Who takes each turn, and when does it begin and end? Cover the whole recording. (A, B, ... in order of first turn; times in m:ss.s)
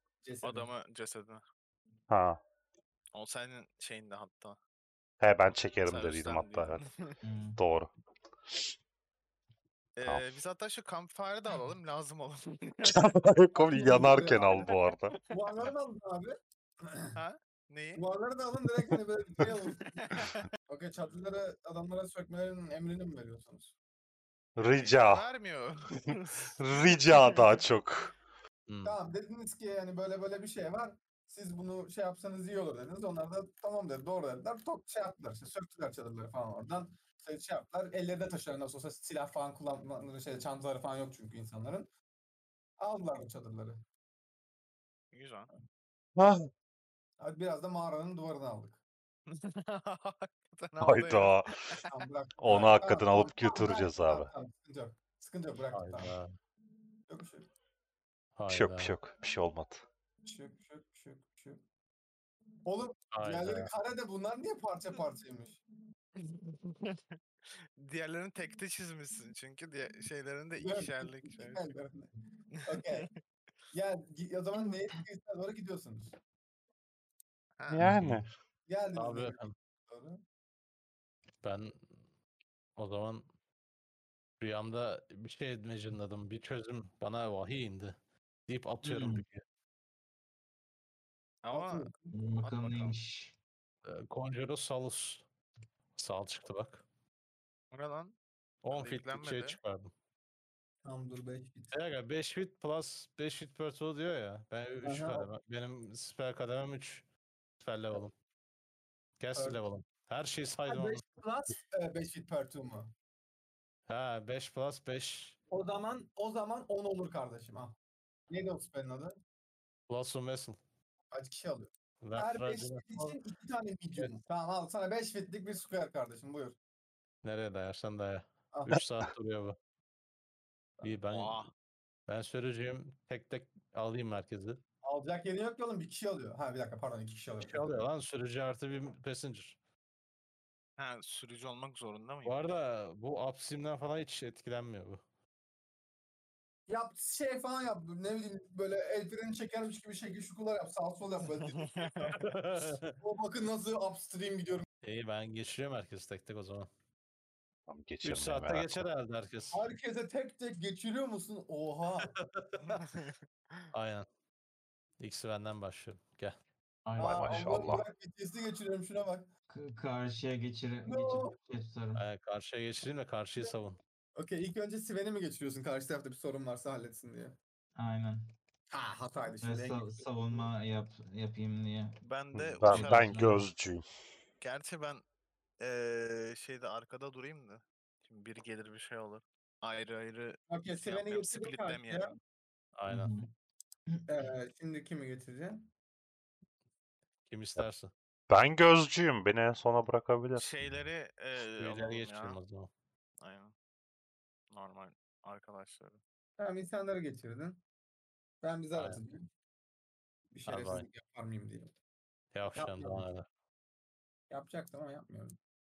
0:00.2-0:00.7 A
0:00.4-0:01.4 B
0:02.1-0:02.4 C
0:03.1-0:04.6 B
0:05.2-0:06.8 C
0:05.9-0:07.2 B
0:07.2-0:07.6 D
0:07.6-0:07.9 C
0:10.0-0:13.1 B
0:12.8-0:15.2 C
0:13.5-0:14.8 A
0:14.9-0:15.7 B
0:15.3-0:17.2 A
0:17.2-0:18.0 B
0:18.0-0:23.7 A
0:19.9-0:20.5 B
0:24.6-0:25.2 C
0:24.8-0:27.6 B
0:25.9-0:28.1 C
0:28.7-0:29.0 E
0:28.8-0:41.9 A
0:42.8-0:43.8 A
0:45.1-0:45.5 B
0:46.2-0:46.5 C
0:47.2-0:48.8 A
0:49.3-0:51.9 B
0:50.8-0:51.6 C
0:51.8-0:56.2 A
0:52.4-0:54.3 C
0:55.7-0:56.3 E
0:57.1-0:57.5 A
0:58.4-0:59.0 E
0:58.5-0:59.8 C
1:00.2-1:01.6 A
1:02.6-1:05.6 A
1:03.1-1:03.7 E
1:06.2-1:11.6 B
1:10.6-1:13.1 A
1:12.5-1:13.2 B
1:13.7-1:16.2 A
1:17.6-1:17.9 B
1:17.7-1:18.3 C
1:17.8-1:18.3 E
1:18.7-1:20.2 A
1:19.0-1:19.6 E
1:21.4-1:22.0 E
1:22.8-1:23.3 E
1:24.4-1:28.0 E
1:28.5-1:29.4 E
1:28.8-1:29.2 D
1:31.4-1:33.0 B
1:31.5-1:32.1 A
1:32.1-1:33.4 D
1:33.8-1:35.2 E
1:36.0-1:36.8 E
1:37.7-1:38.2 B
1:38.6-1:39.9 E
1:38.7-1:39.6 B
1:40.8-1:41.7 A
1:41.7-1:47.0 E
1:44.8-1:45.3 A
1:47.6-1:48.1 E
1:49.2-1:51.0 E
1:49.4-1:49.6 A
1:50.7-1:52.9 A
1:53.9-1:55.4 E
1:55.5-1:57.8 A
1:58.3-1:59.2 A
1:59.9-2:00.6 E
2:01.1-2:06.6 A
2:02.0-2:03.2 E
2:07.2-2:09.6 E
2:08.5-2:08.8 A
2:10.8-2:11.5 E
2:11.1-2:11.5 B
2:12.1-2:14.6 E
2:14.8-2:17.8 A
2:17.4-2:19.6 E
2:20.8-2:22.5 B
2:22.2-2:25.0 E
2:26.7-2:34.7 A
2:31.5-2:32.2 B
2:32.2-2:33.0 E
2:34.8-2:36.7 E
2:37.7-2:38.9 C
2:38.0-2:39.6 E
2:39.5-2:42.2 A
2:42.0-2:42.8 E
2:42.6-2:43.7 B
2:43.7-2:44.1 E
2:45.0-2:46.4 E
2:46.9-2:47.7 D
2:47.0-2:49.3 A
2:47.0-2:47.9 C
2:49.5-2:52.0 D
2:50.8-2:51.4 A
2:52.0-2:53.8 E
2:54.2-2:57.4 A
2:57.8-2:58.3 D
2:58.7-3:00.4 A
2:59.4-3:02.0 D
3:02.0-3:03.2 B
3:02.3-3:03.8 C
3:02.6-3:03.5 D
3:04.4-3:05.0 B
3:05.6-3:12.2 B
3:10.5-3:12.2 A
3:12.8-3:13.1 E
3:12.9-3:13.3 D
3:14.1-3:15.7 A
3:17.3-3:17.9 E
3:18.3-3:20.8 C
3:20.4-3:22.4 B
3:21.6-3:22.7 E
3:23.2-3:23.5 B
3:24.5-3:26.0 B
3:26.4-3:27.6 A
3:28.4-3:29.3 A
3:28.8-3:29.0 E
3:30.3-3:31.8 A
3:30.5-3:30.9 E
3:32.3-3:33.3 E
3:32.5-3:33.1 A
3:34.3-3:35.4 A